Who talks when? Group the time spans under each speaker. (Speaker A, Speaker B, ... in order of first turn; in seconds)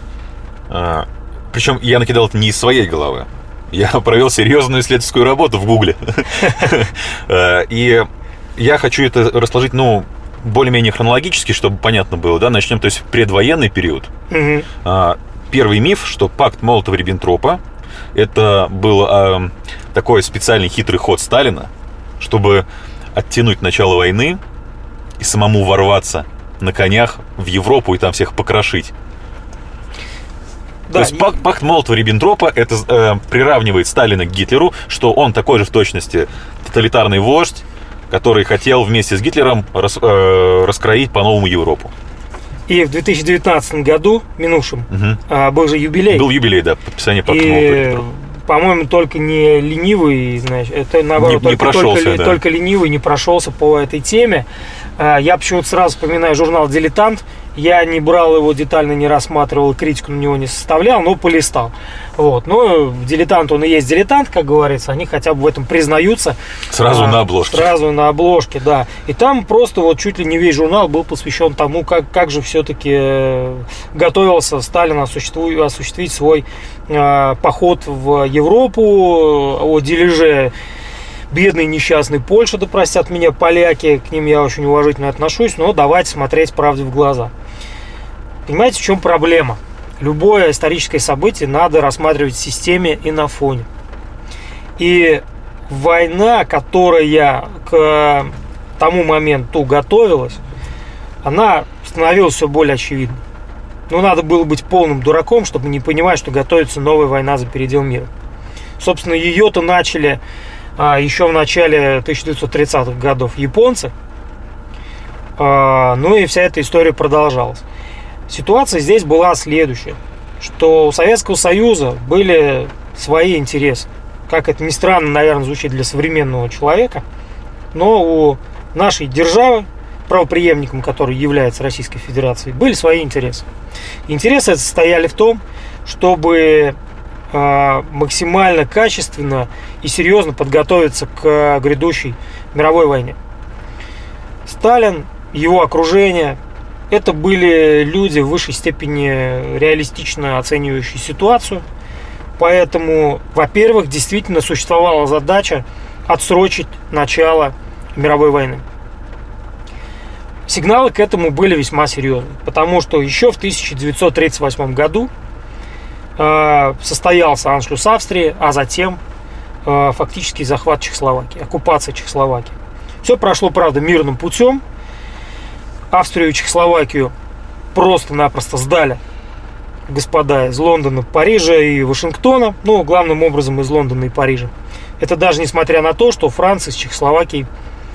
Speaker A: 0.7-14.1, 14.8-17.6, 18.1-24.4, 25.2-28.9, 30.9-41.9, 44.9-45.2, 46.1-48.0, 51.1-52.4, 66.7-67.7
Speaker B: 14.3-14.7, 30.9-31.3, 42.7-46.3, 47.2-54.5, 55.0-80.5, 81.3-87.3, 88.5-93.7, 94.8-100.4, 101.2-103.2, 103.9-108.1, 108.8-110.2, 110.8-113.9, 115.4-117.6, 118.3-127.0, 127.7-133.4, 134.1-136.8, 137.3-143.2, 144.4-146.4, 146.9-151.6, 152.4-158.6, 160.5-165.1, 166.2-169.0, 169.6-174.6, 175.9-177.1, 177.7-179.0, 179.9-187.5